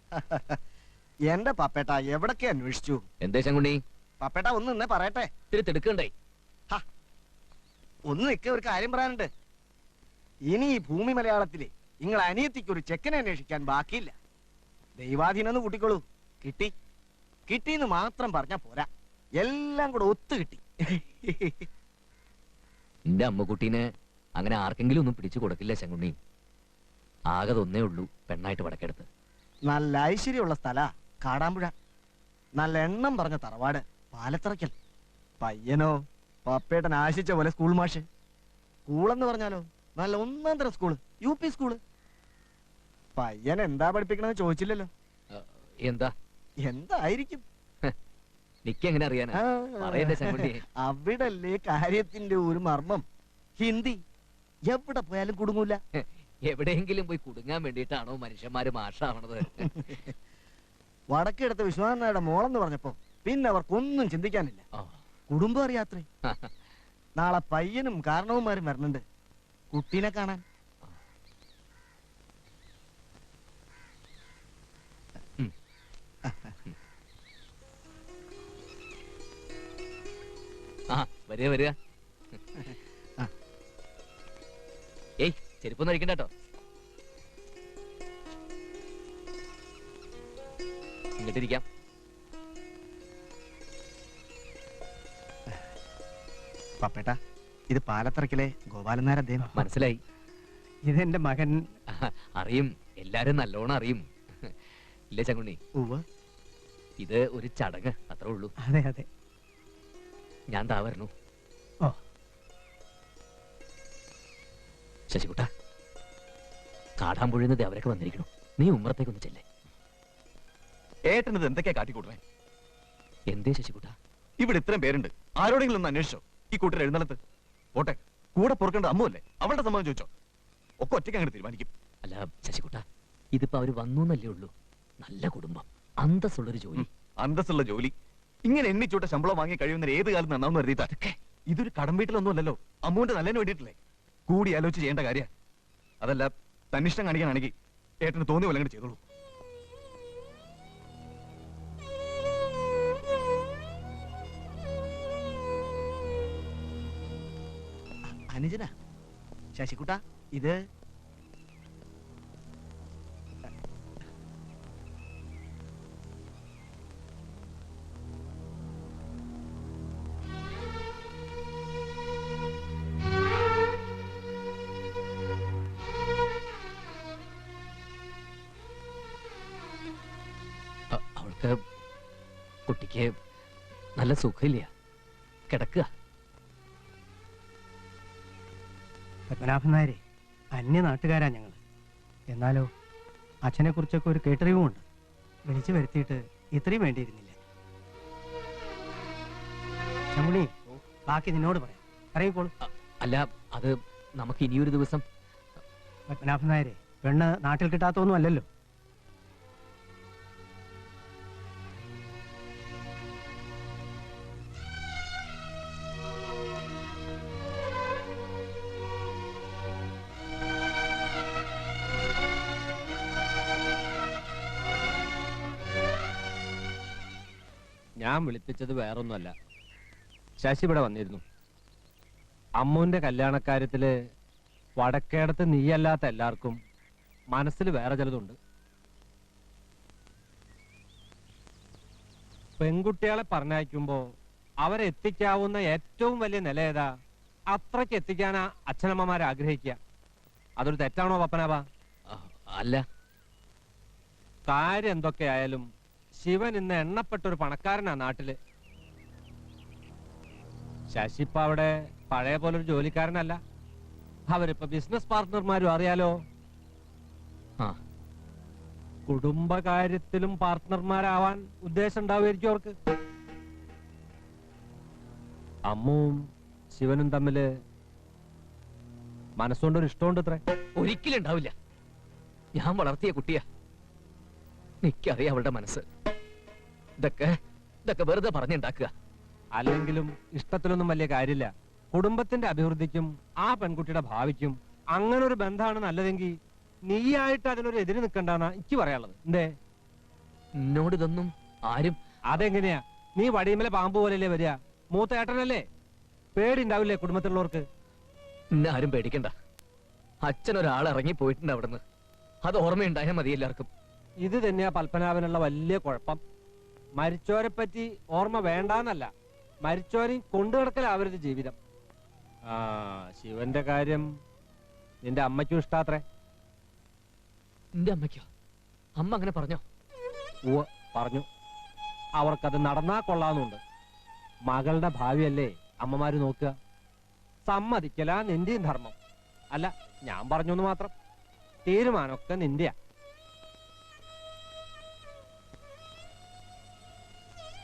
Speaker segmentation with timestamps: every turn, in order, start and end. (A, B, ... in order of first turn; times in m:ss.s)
0:00.2-0:00.4 A
0:01.3-0:03.0 A
0:03.2-0:03.8 B
0:04.2-0:05.3 A
0:05.5-0:06.1 B
0:08.1-0:09.3 A
0:10.5-0:14.1 A
0:15.0-0:16.7 A
0:17.5-0:18.9 A
0:19.4-0:21.6 A
0:23.1-0:23.8 B
0:24.4-0:26.2 B
0:27.3-0:29.1 B
0:29.7-0:31.7 A
0:32.6-0:34.7 A
0:35.4-0:38.0 A
0:38.9-0:41.8 A
0:43.2-0:44.9 A
0:45.3-0:46.1 B
0:46.6-0:47.4 A
0:48.6-0:50.6 B
0:49.3-0:53.0 A
0:53.6-0:54.0 A
0:54.7-0:55.8 A
0:56.0-1:00.0 B
1:01.1-1:04.6 A
1:05.3-1:06.0 A
1:07.2-1:09.0 A
1:09.7-1:10.4 A
1:16.2-1:16.5 A
1:20.9-1:21.7 B
1:25.2-1:26.3 B
1:31.2-1:31.6 B
1:36.8-1:37.1 A
1:37.7-1:39.6 A
1:39.5-1:40.0 B
1:40.9-1:41.6 C
1:42.0-1:44.5 B
1:45.1-1:45.6 B
1:47.0-1:48.5 B
1:48.6-1:49.0 C
1:50.5-1:51.1 B
1:55.1-1:55.5 B
1:57.0-1:59.4 B
2:01.1-2:02.2 D
2:03.3-2:03.9 B
2:04.4-2:07.2 D
2:07.8-2:10.1 D
2:10.8-2:11.7 D
2:12.0-2:12.8 B
2:13.3-2:16.8 B
2:16.8-2:17.9 D
2:18.4-2:20.9 D
2:20.8-2:21.1 B
2:21.5-2:25.3 D
2:26.0-2:29.0 D
2:38.3-2:38.7 A
2:39.5-2:40.6 A
3:00.9-3:01.5 B
3:02.7-3:03.1 B
3:04.0-3:04.7 B
3:05.5-3:05.8 B
3:09.3-3:10.0 C
3:10.5-3:11.6 C
3:12.3-3:12.7 C
3:13.4-3:14.8 C
3:15.5-3:17.4 C
3:20.1-3:22.5 C
3:22.6-3:25.0 B
3:26.1-3:28.5 C
3:48.0-3:49.3 E
3:50.4-3:51.2 E
3:52.6-3:53.9 E
3:54.8-3:56.6 E
3:57.3-3:58.4 E
4:02.6-4:04.0 E
4:04.6-4:06.9 E
4:07.5-4:09.8 E
4:10.6-4:11.6 E
4:12.1-4:12.8 B
4:14.5-4:15.6 E
4:16.2-4:18.4 E
4:20.9-4:23.4 E
4:24.3-4:26.1 E
4:29.1-4:32.7 E
4:35.7-4:36.2 E
4:36.7-4:37.4 E
4:39.4-4:40.4 E
4:40.8-4:41.5 B
4:42.6-4:43.4 B
4:44.8-4:45.8 B
4:47.0-4:48.9 B
4:49.6-4:56.3 E
4:56.9-4:59.5 E
5:00.6-5:02.0 B
5:02.3-5:05.6 E
5:06.4-5:07.6 E
5:08.5-5:09.3 B
5:10.2-5:11.8 B
5:12.4-5:13.7 B
5:14.2-5:16.2 E
5:17.0-5:19.1 E
5:19.6-5:21.5 E
5:22.5-5:24.0 E
5:25.0-5:26.0 E
5:27.8-5:28.2 B
5:29.0-5:29.6 B
5:30.5-5:31.2 E
5:32.2-5:33.6 E
5:34.5-5:36.5 E
5:37.4-5:38.9 E
5:39.5-5:40.9 E
5:41.6-5:42.7 E